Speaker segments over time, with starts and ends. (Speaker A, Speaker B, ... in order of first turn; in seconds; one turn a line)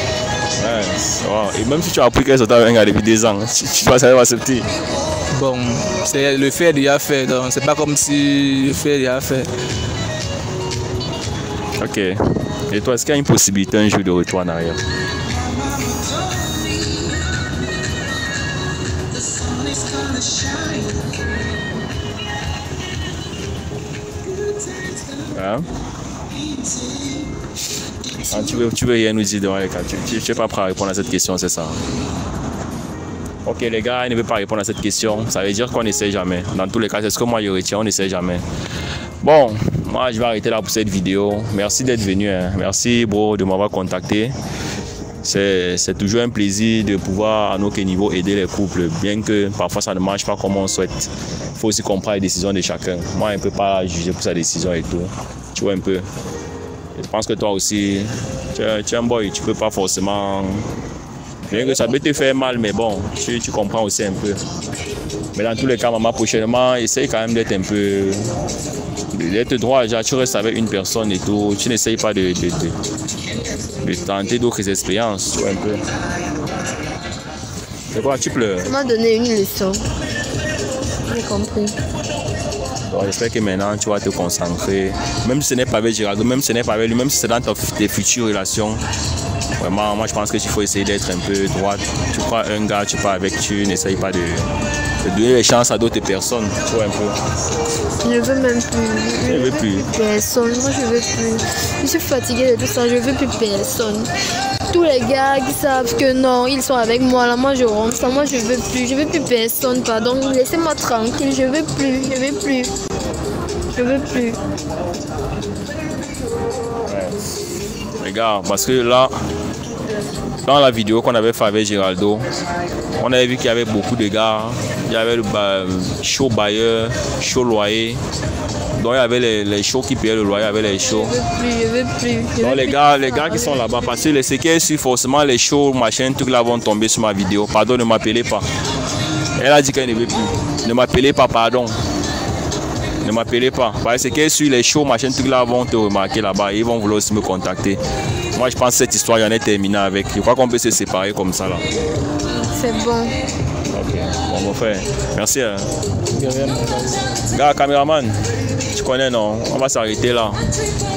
Speaker A: 0.6-4.7
Speaker B: 5.3-9.5
Speaker A: 11.8-12.2
Speaker A: 12.7-14.8
Speaker A: 25.2-25.7
Speaker A: 28.3-31.8
Speaker A: 33.5-38.4
Speaker A: 39.2-44.3
Speaker A: 45.2-56.0
Speaker A: 57.0-60.7
Speaker A: 61.5-64.4
Speaker A: 65.3-68.3
Speaker A: 69.1-72.8
Speaker A: 73.8-75.8
Speaker A: 77.9-78.7
Speaker C: 78.7-79.8
Speaker C: 81.1-81.8
Speaker A: 82.9-88.8
Speaker A: 89.6-94.5
Speaker A: 95.0-97.2
Speaker C: 98.0-104.1
Speaker A: 99.3-99.8
Speaker C: 104.7-112.7
Speaker C: 113.7-114.4
Speaker A: 116.8-117.2
Speaker A: 118.0-119.1
Speaker A: 120.4-122.2
Speaker A: 123.0-128.0
Speaker A: 128.8-131.2
Speaker C: 130.8-133.8
Speaker A: 132.4-138.5
Speaker A: 139.4-141.8
Speaker A: 143.0-147.8
Speaker A: 148.3-151.6
Speaker C: 152.3-153.2
Speaker A: 153.7-155.7
Speaker B: 156.1-157.2
Speaker A: 157.3-158.2
Speaker A: 158.7-160.4